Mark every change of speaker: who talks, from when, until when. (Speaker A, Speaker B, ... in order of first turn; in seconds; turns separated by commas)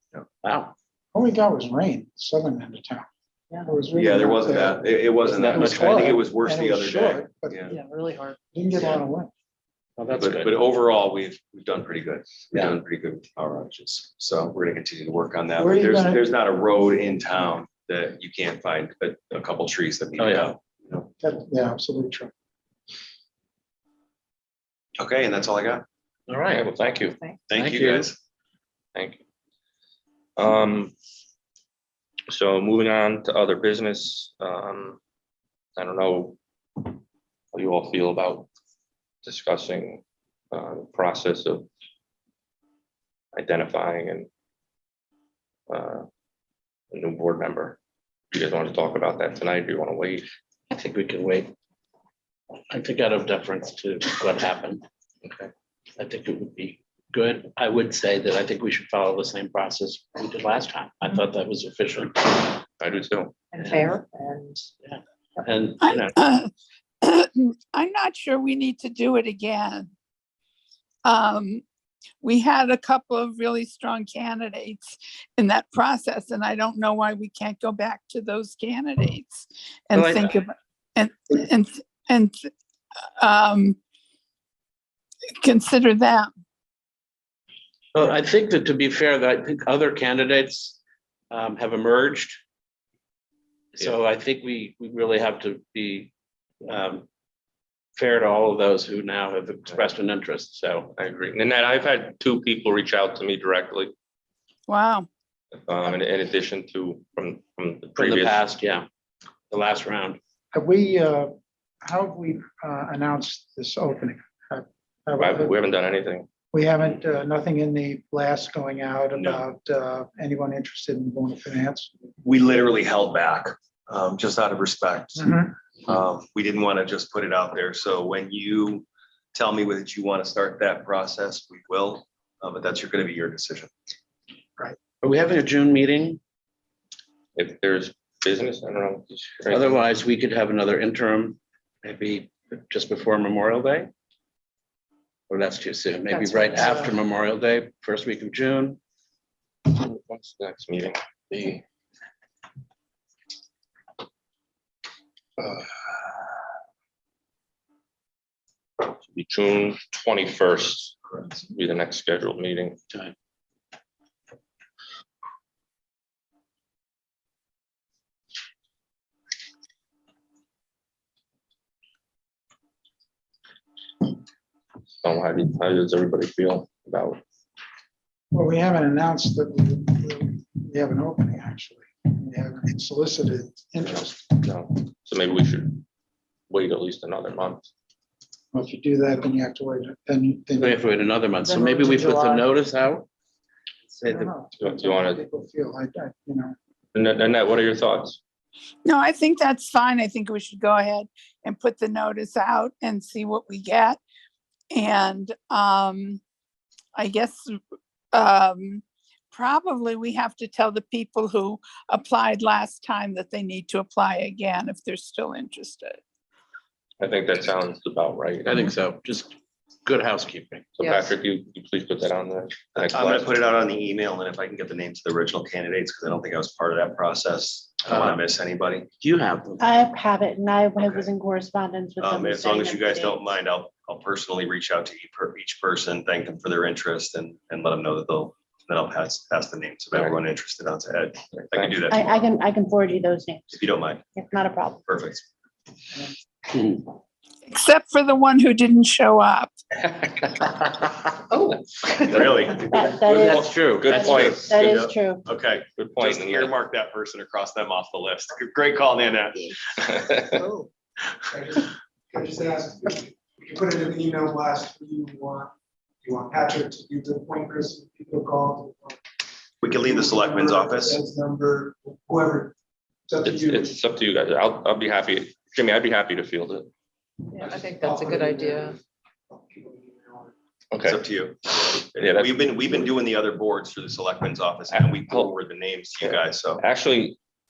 Speaker A: 0.4-0.7, Speaker B: 1.1-3.0, Speaker B: 3.6-7.8, Speaker C: 3.9-7.7, Speaker A: 5.3-6.1, Speaker D: 7.7-8.4, Speaker B: 8.5-9.3, Speaker A: 10.0-10.6, Speaker C: 10.1-21.1, Speaker B: 15.6-16.2, Speaker A: 20.2-20.5, Speaker B: 21.2-22.3, Speaker C: 25.0-25.8, Speaker A: 26.3-28.1, Speaker E: 26.5-27.2, Speaker C: 27.5-28.2, Speaker E: 28.9-29.2, Speaker E: 30.4-30.9, Speaker E: 32.3-35.0, Speaker E: 35.8-37.0, Speaker E: 37.5-38.5, Speaker E: 39.2-41.7, Speaker E: 43.3-44.3, Speaker E: 45.7-46.0, Speaker E: 46.9-47.8, Speaker E: 48.3-50.3, Speaker A: 50.7-51.5, Speaker A: 52.7-54.8, Speaker A: 56.0-62.6, Speaker E: 62.8-63.3, Speaker D: 63.5-64.7, Speaker A: 63.6-64.0, Speaker A: 64.8-66.2, Speaker F: 65.8-66.5, Speaker F: 67.0-69.9, Speaker F: 71.0-71.6, Speaker F: 72.2-82.4, Speaker A: 79.9-80.4, Speaker F: 83.2-83.8, Speaker F: 85.4-86.3, Speaker A: 87.9-90.8, Speaker A: 91.3-92.4, Speaker A: 93.7-96.1, Speaker A: 96.7-97.0, Speaker A: 97.9-100.9, Speaker E: 101.0-103.9, Speaker F: 104.7-105.1, Speaker E: 105.5-108.5, Speaker A: 108.0-108.9, Speaker A: 109.5-110.2, Speaker B: 110.5-111.3, Speaker B: 111.8-115.6, Speaker E: 115.2-116.3, Speaker B: 116.5-121.9, Speaker C: 119.2-119.4, Speaker C: 122.2-133.7, Speaker B: 125.2-125.5, Speaker A: 135.0-136.2, Speaker E: 137.3-139.8, Speaker A: 139.5-143.9, Speaker A: 145.3-148.8, Speaker D: 146.1-146.9, Speaker E: 149.7-151.0, Speaker A: 151.3-151.6, Speaker E: 158.8-162.8, Speaker E: 175.0-177.2, Speaker B: 178.3-184.2, Speaker E: 183.8-185.8, Speaker E: 186.5-187.7, Speaker B: 188.5-190.8, Speaker A: 190.6-193.1, Speaker B: 191.4-192.4, Speaker A: 193.9-194.3, Speaker B: 194.1-196.6, Speaker E: 194.6-195.2, Speaker E: 196.9-198.2, Speaker F: 198.8-204.0, Speaker F: 204.7-206.2, Speaker F: 206.9-207.6, Speaker F: 208.1-216.0, Speaker E: 217.0-218.7, Speaker A: 218.4-220.7, Speaker E: 220.8-223.4, Speaker C: 222.7-228.9, Speaker A: 227.9-228.2, Speaker A: 229.0-229.7, Speaker G: 229.6-233.3, Speaker C: 230.8-231.1, Speaker C: 232.0-242.2, Speaker E: 241.3-241.8, Speaker G: 241.9-243.6, Speaker C: 243.5-244.1, Speaker G: 244.1-244.8, Speaker C: 244.8-245.2, Speaker F: 247.5-249.6, Speaker C: 252.1-259.5, Speaker G: 252.6-255.2, Speaker A: 253.0-254.2, Speaker E: 253.3-254.9, Speaker E: 255.8-256.5, Speaker E: 259.8-260.4, Speaker B: 260.3-260.6, Speaker H: 261.3-265.5, Speaker H: 266.0-269.0, Speaker C: 269.6-271.0, Speaker H: 269.7-272.5, Speaker H: 273.1-273.7, Speaker E: 273.2-276.7, Speaker H: 277.4-278.8, Speaker D: 277.4-278.7, Speaker H: 279.3-280.3, Speaker E: 280.7-281.0, Speaker C: 280.8-286.6, Speaker E: 281.9-282.9, Speaker E: 284.7-285.3, Speaker E: 286.0-287.2